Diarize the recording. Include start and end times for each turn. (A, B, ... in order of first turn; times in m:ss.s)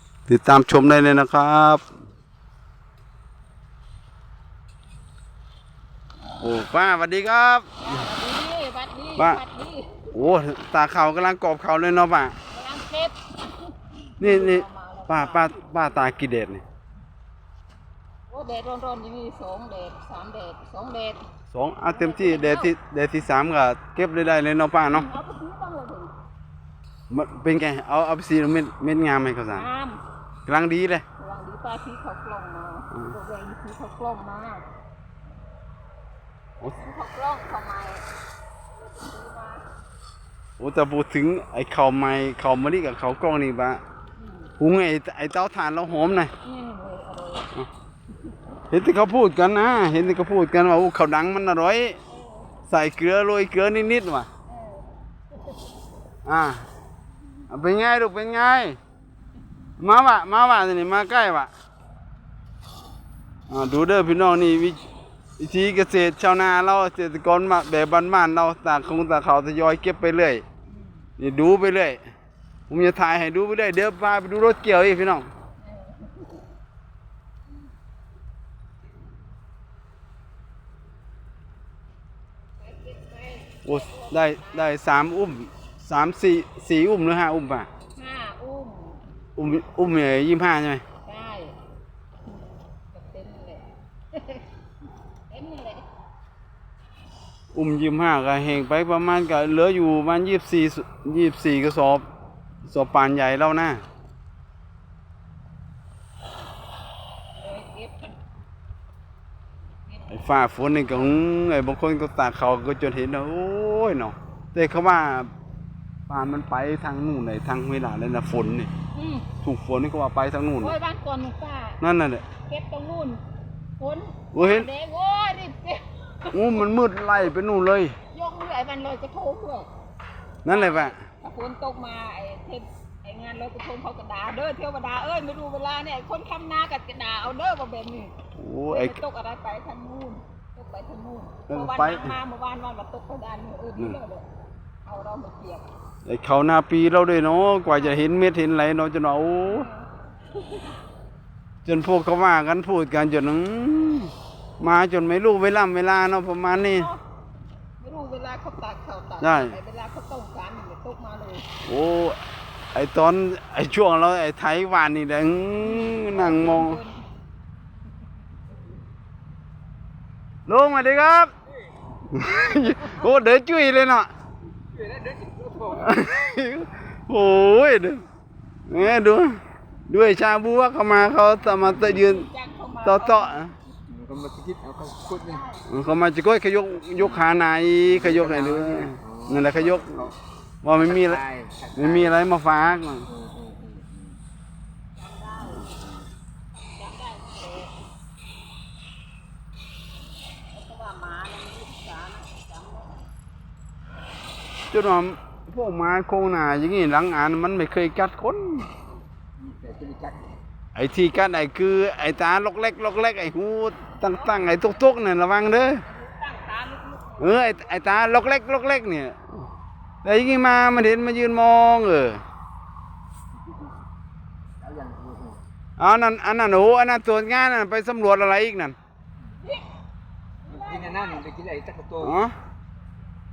0:00.3-0:01.8 A
0:06.4-0:08.1 A
0:07.8-0:10.1 B
0:09.2-0:09.4 A
0:10.1-0:12.4 A
0:12.5-0:15.7 B
0:14.2-0:16.6 A
0:18.3-0:21.2 B
0:21.5-0:25.1 A
0:21.9-0:22.7 B
0:24.9-0:26.2 B
0:27.1-0:29.7 A
0:29.5-0:30.0 B
0:30.5-0:31.0 A
0:31.2-0:34.7 B
0:36.7-0:38.1 B
0:38.7-0:39.7 B
0:40.6-0:43.8 A
0:44.2-0:44.5 B
0:44.6-0:46.3 A
0:46.4-0:47.5 B
0:48.7-0:52.0 A
0:52.1-0:52.5 B
0:52.7-0:54.3 A
0:54.5-0:54.9 B
0:56.2-0:56.6 A
0:57.5-0:58.8 A
0:59.8-1:01.5 A
1:03.5-1:04.8 A
1:05.4-1:10.4 A
1:11.2-1:12.0 A
1:12.7-1:15.3 A
1:15.6-1:16.4 B
1:22.6-1:24.8 B
1:23.6-1:27.7 A
1:28.0-1:29.0 B
1:29.4-1:30.8 A
1:31.0-1:31.6 B
1:32.3-1:34.5 B
1:35.3-1:35.9 B
1:37.5-1:42.0 A
1:42.6-1:43.8 A
1:47.4-1:48.2 B
1:49.9-1:50.1 B
1:50.1-1:55.3 A
1:56.1-1:58.7 A
1:59.0-1:59.3 B
1:59.4-2:00.8 A
2:00.6-2:01.8 B
2:01.8-2:02.2 A
2:02.4-2:03.2 B
2:03.8-2:06.7 B
2:04.3-2:04.7 A
2:06.3-2:08.0 A
2:08.1-2:09.7 B
2:10.4-2:11.0 A
2:10.5-2:18.2 B
2:18.4-2:19.0 A
2:18.7-2:24.3 B
2:21.5-2:22.2 A
2:24.8-2:25.7 B
2:26.1-2:29.7 A
2:29.5-2:29.9 B
2:30.4-2:30.7 B
2:31.6-2:36.9 A
2:36.6-2:37.0 B
2:37.8-2:41.5 B
2:39.2-2:39.6 A
2:41.6-2:42.2 A
2:42.7-2:46.8 A
2:45.6-2:47.1 B
2:50.5-2:51.3 A
2:52.1-2:54.1 A
2:54.7-2:56.1 C
2:55.7-2:58.0 A
2:58.7-3:02.3 A
3:01.4-3:03.5 B
3:02.8-3:03.5 A
3:03.9-3:05.5 C
3:05.0-3:05.6 B
3:05.7-3:10.1 A
3:07.9-3:10.1 C
3:10.6-3:11.2 A
3:10.8-3:12.1 C
3:11.7-3:13.1 A
3:13.1-3:14.2 C
3:15.0-3:15.8 B
3:15.5-3:16.0 C
3:16.5-3:17.8 B
3:20.5-3:23.1 B
3:24.7-3:28.7 A
3:29.4-3:30.3 C
3:30.8-3:35.8 A
3:34.0-3:34.6 B
3:35.8-3:37.9 B
3:37.2-3:39.3 A
3:40.0-3:42.2 A
3:44.6-3:45.4 C
3:45.8-3:48.8 A
3:50.5-3:51.3 B
3:50.5-3:52.2 C
3:52.0-3:52.4 A